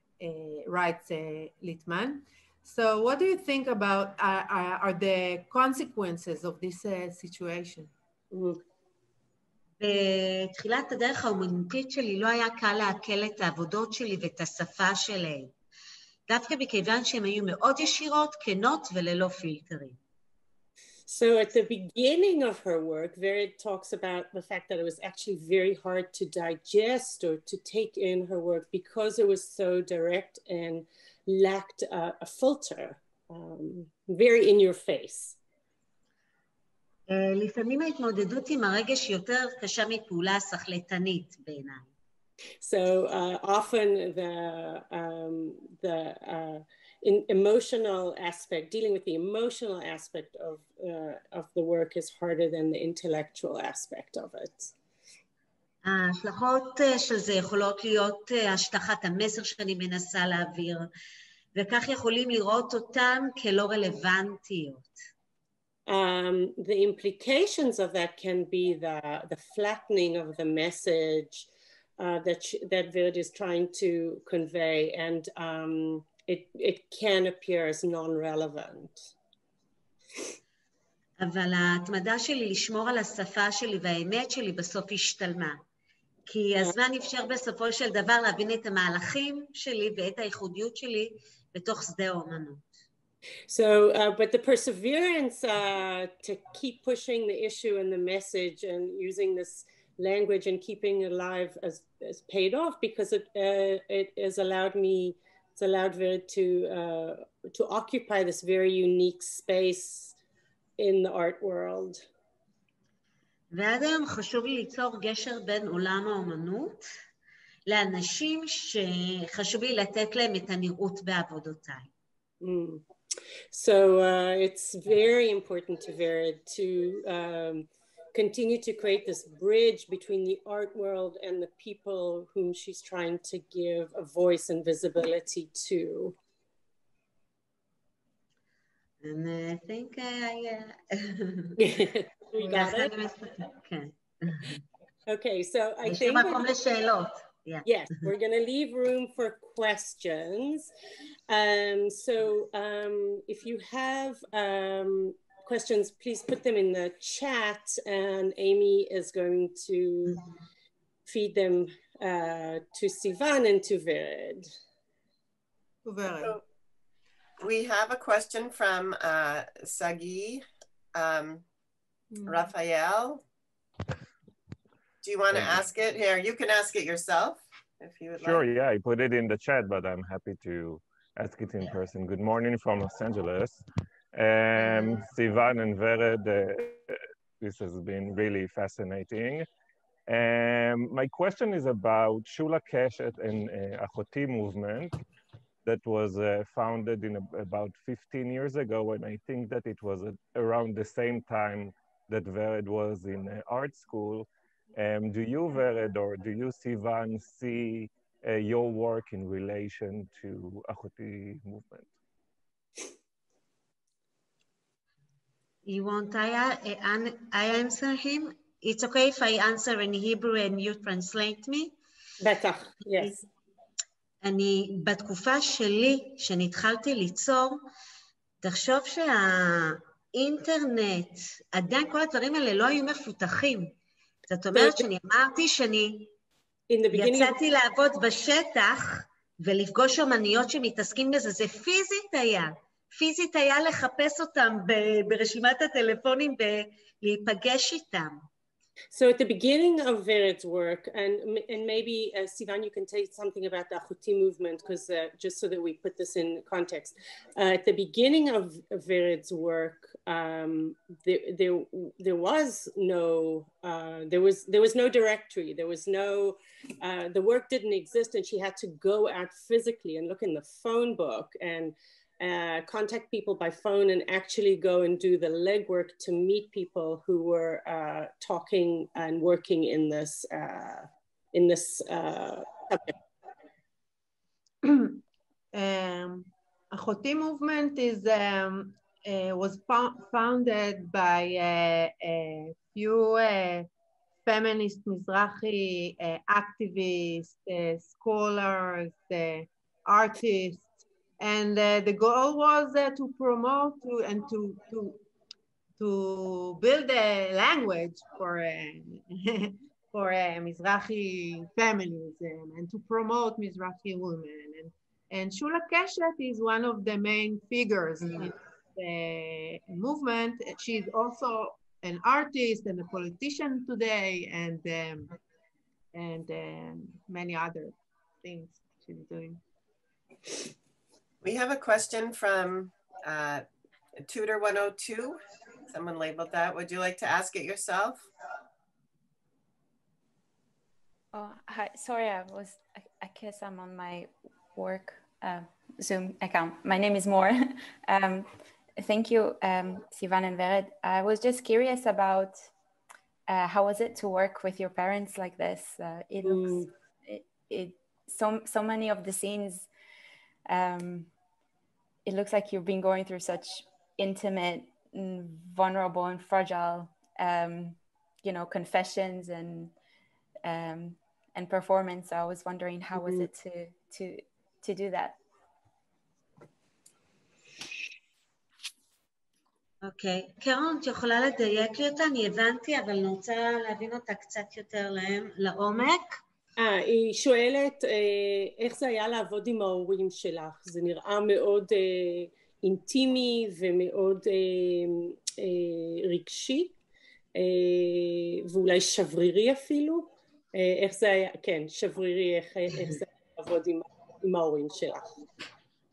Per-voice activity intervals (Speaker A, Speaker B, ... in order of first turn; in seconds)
Speaker A: 0.2-7.9, 165.8-166.4, 172.1-172.4, 284.6-285.0, 285.5-293.7, 294.2-300.7, 301.2-305.0, 305.8-325.1, 325.9-329.4
Speaker B: 8.3-8.6, 21.1-35.4, 42.6-54.7, 65.9-71.5, 72.0-79.1, 93.5-110.2, 110.8-112.0, 122.4-122.8, 123.5-136.2, 141.6-142.9, 145.1-146.5, 147.6-150.7, 151.3-160.2, 161.1-164.5, 222.2-223.2, 234.5-234.8, 236.7-237.4, 248.9-282.9, 356.2-356.7, 386.6-396.7, 397.3-405.1
Speaker C: 9.8-15.5, 16.3-20.0, 37.1-41.9, 55.8-60.9, 61.5-64.9, 81.2-85.6, 86.3-92.7, 113.5-116.9, 117.7-121.9, 139.0-141.6, 142.4-144.6, 145.8-147.7, 215.6-221.7, 224.2-227.6, 228.4-233.7, 234.3-236.1, 236.9-248.2, 379.8-386.2
Speaker D: 167.4-170.4, 170.9-171.4, 172.2-173.2, 175.0-178.4, 331.2-333.4, 334.0-335.2, 335.7-338.1
Speaker E: 175.4-175.6, 178.2-186.9, 187.4-189.5, 190.1-195.0, 195.6-211.9
Speaker F: 341.1-352.5, 353.3-359.7, 360.5-361.1, 362.1-369.7, 370.4-375.2